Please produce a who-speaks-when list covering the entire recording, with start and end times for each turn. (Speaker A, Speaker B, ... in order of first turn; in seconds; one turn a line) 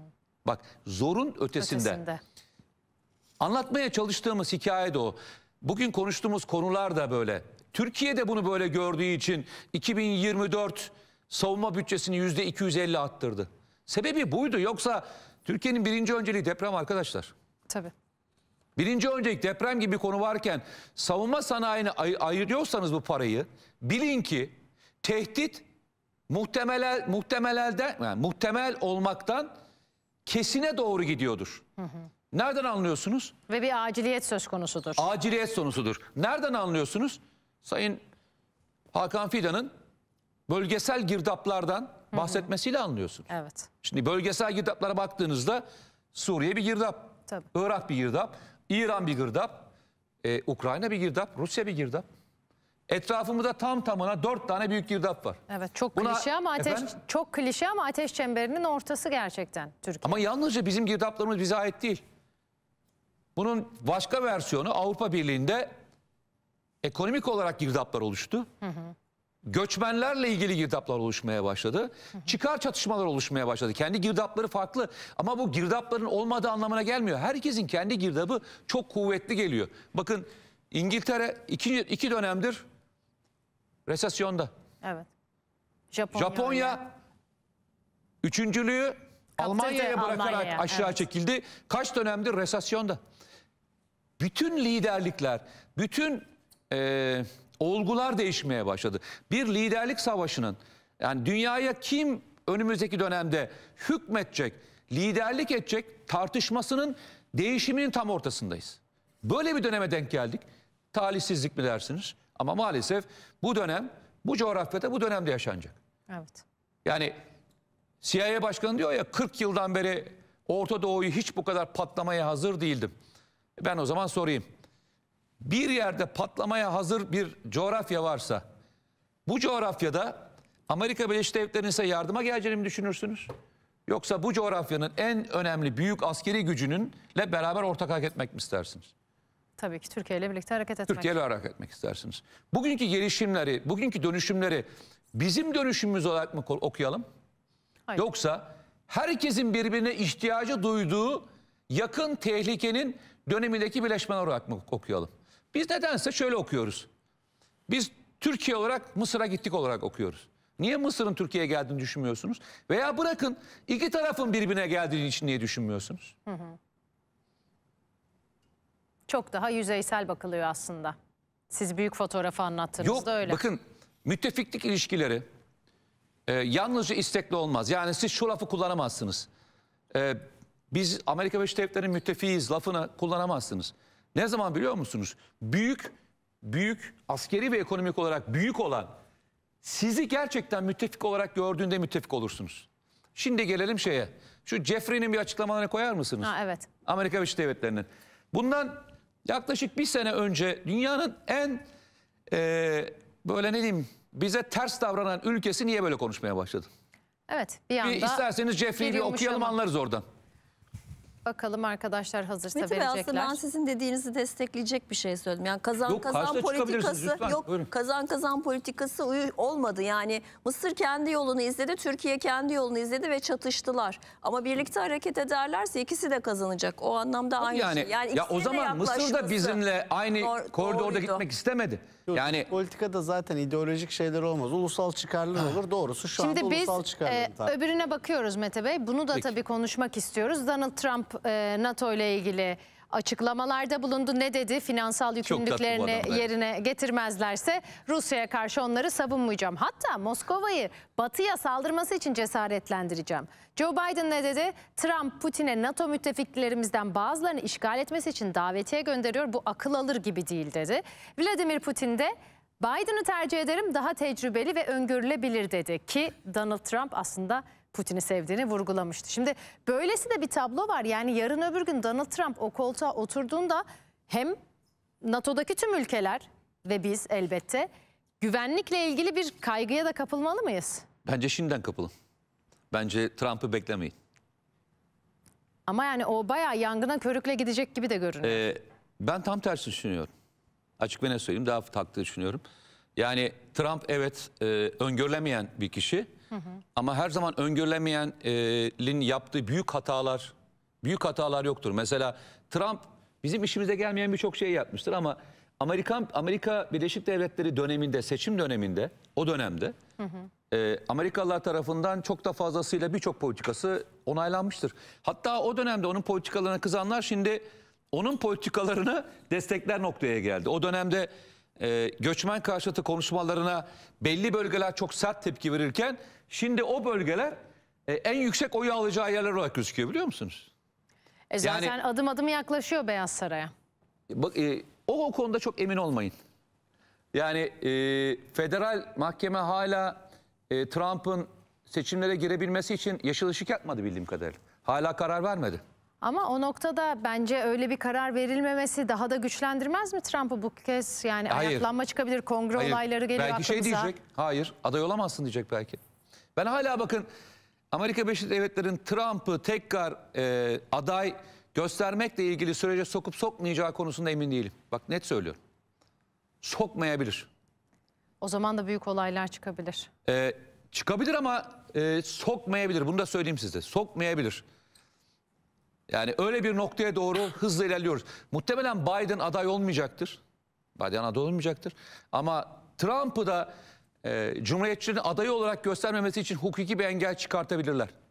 Speaker A: 0.5-2.0
Speaker B: 1.6-2.2
Speaker A: 3.4-17.3
Speaker A: 18.8-25.6
Speaker A: 26.3-29.5
Speaker A: 30.3-31.6
Speaker A: 32.3-33.3
Speaker B: 33.5-35.1
Speaker A: 35.0-38.0
Speaker A: 38.9-39.7
Speaker A: 40.5-43.3
Speaker B: 43.3-43.7
Speaker A: 43.8-49.7
Speaker A: 50.2-52.0
Speaker A: 52.9-55.4
Speaker B: 55.5-60.2
Speaker A: 56.0-56.9
Speaker A: 60.0-62.0
Speaker A: 63.4-65.7
Speaker A: 66.8-68.5
Speaker A: 69.5-82.7
Speaker A: 83.9-84.5
Speaker B: 85.9-86.8
Speaker A: 86.1-86.8
Speaker A: 88.2-93.0
Speaker B: 89.4-91.0
Speaker A: 94.2-115.8
Speaker B: 116.1-116.4
Speaker A: 116.8-117.1
Speaker A: 118.0-122.9
Speaker A: 123.6-124.5
Speaker A: 125.4-128.4
Speaker A: 129.3-133.3
Speaker A: 133.9-138.9
Speaker B: 139.6-141.1
Speaker A: 140.9-147.1
Speaker A: 148.0-156.9
Speaker A: 157.7-166.1
Speaker B: 166.3-166.6
Speaker B: 169.1-171.0
Speaker B: 171.5-173.4
Speaker A: 172.8-175.2
Speaker A: 176.3-179.3
Speaker A: 179.9-188.9
Speaker A: 189.6-196.3
Speaker B: 196.2-196.7
Speaker A: 196.9-201.6
Speaker A: 202.3-206.7
Speaker B: 207.3-208.2
Speaker A: 207.8-210.1
Speaker B: 208.8-209.6
Speaker B: 211.2-213.4
Speaker C: 212.6-229.6
Speaker A: 215.9-217.7
Speaker A: 227.4-232.5
Speaker C: 230.2-231.2
Speaker D: 232.1-237.6
Speaker B: 236.2-274.4
Speaker A: 245.3-246.2
Speaker B: 275.0-277.7
Speaker B: 278.2-280.9
Speaker A: 281.1-281.9
Speaker A: 282.7-283.9
Speaker B: 285.7-288.5
Speaker A: 288.2-290.1
Speaker A: 290.8-292.4
Speaker A: 293.0-296.1
Speaker A: 296.8-309.8
Speaker A: 310.5-327.4
Speaker A: 327.9-330.5
Speaker B: 331.3-333.5
Speaker A: 331.4-331.8
Speaker A: 334.1-336.1
Speaker A: 337.1-345.6
Speaker B: 346.0-353.9
Speaker A: 351.3-351.7
Speaker A: 352.6-355.8
Speaker A: 356.4-357.1
Speaker A: 357.7-365.4
Speaker A: 366.4-367.3
Speaker B: 368.2-369.9
Speaker A: 370.1-374.4
Speaker A: 375.9-380.2
Speaker A: 380.8-383.5
Speaker A: 384.0-387.9